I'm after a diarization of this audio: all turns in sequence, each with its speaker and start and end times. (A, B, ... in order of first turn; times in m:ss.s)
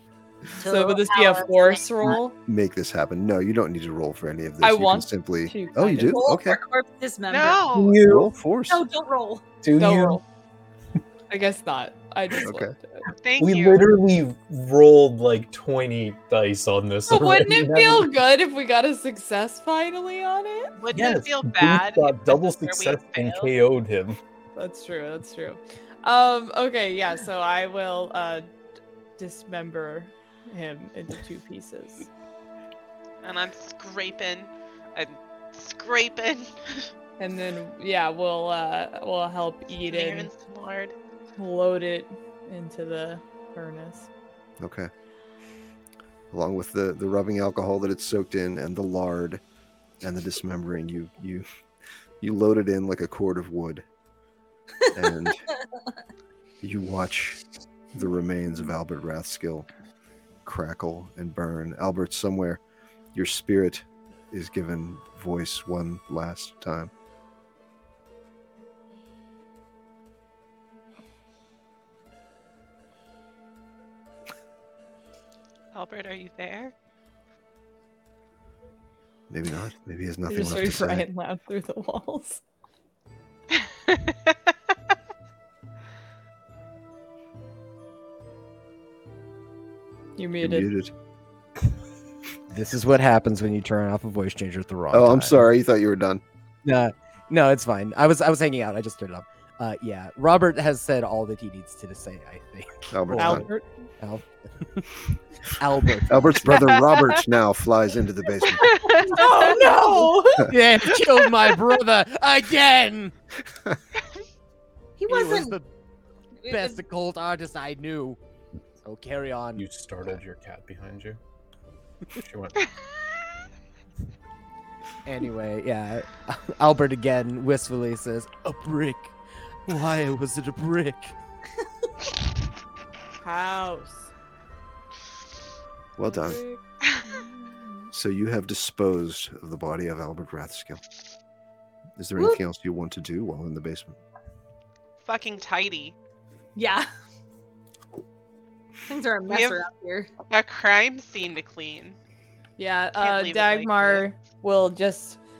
0:00.6-0:02.2 A
0:00.6-0:02.3 B
0:02.4-0:06.6 C
0:04.6-0:06.2 B
0:06.0-0:07.6 A
0:07.3-0:08.0 D
0:07.7-0:08.3 E
0:08.0-0:08.8 C
0:08.7-0:09.4 A
0:09.6-0:10.2 E
0:09.8-0:10.2 B
0:11.3-0:13.0 B
0:12.4-0:12.7 C
0:13.2-0:13.9 D
0:13.4-0:18.1 E
0:17.1-0:20.7 B
0:20.8-0:23.5 D
0:20.9-0:24.2 E
0:24.6-0:28.5 B
0:29.2-0:32.1 B
0:33.2-0:36.9 D
0:37.2-0:40.3 B
0:39.8-0:41.0 D
0:41.4-0:44.1 B
0:44.6-0:44.9 C
0:46.3-0:49.4 C
0:50.0-0:51.4 C
0:52.2-0:53.8 C
0:54.9-0:55.4 C
0:56.6-0:57.4 C
0:57.9-0:59.7 C
1:00.4-1:02.6 C
1:03.1-1:06.9 C
1:15.7-1:16.7 D
1:19.3-1:21.0 C
1:20.3-1:22.4 B
1:23.6-1:24.3 D
1:30.2-1:30.7 B
1:30.4-1:30.9 C
1:32.5-1:35.4 F
1:34.9-1:36.2 C
1:36.6-1:43.5 F
1:42.9-1:43.5 C
1:43.1-1:43.7 B
1:44.0-1:46.7 F
1:46.1-1:48.7 C
1:48.7-1:49.0 D
1:48.8-1:50.4 A
1:49.5-1:53.1 F
1:55.0-1:55.6 A
1:55.1-1:55.7 F
1:56.4-1:56.8 A
1:56.5-1:58.2 F
1:58.8-1:59.6 F
1:59.6-2:01.2 E
2:02.1-2:02.6 E
2:05.0-2:09.1 F
2:09.7-2:11.1 F
2:13.2-2:14.1 B
2:16.0-2:16.4 C
2:16.0-2:17.9 B
2:17.9-2:20.8 C
2:22.0-2:24.0 C
2:25.0-2:25.9 D
2:26.6-2:26.9 A
2:28.9-2:30.1 A
2:29.3-2:29.6 D
2:30.3-2:32.0 D
2:32.6-2:35.2 B
2:33.0-2:34.1 D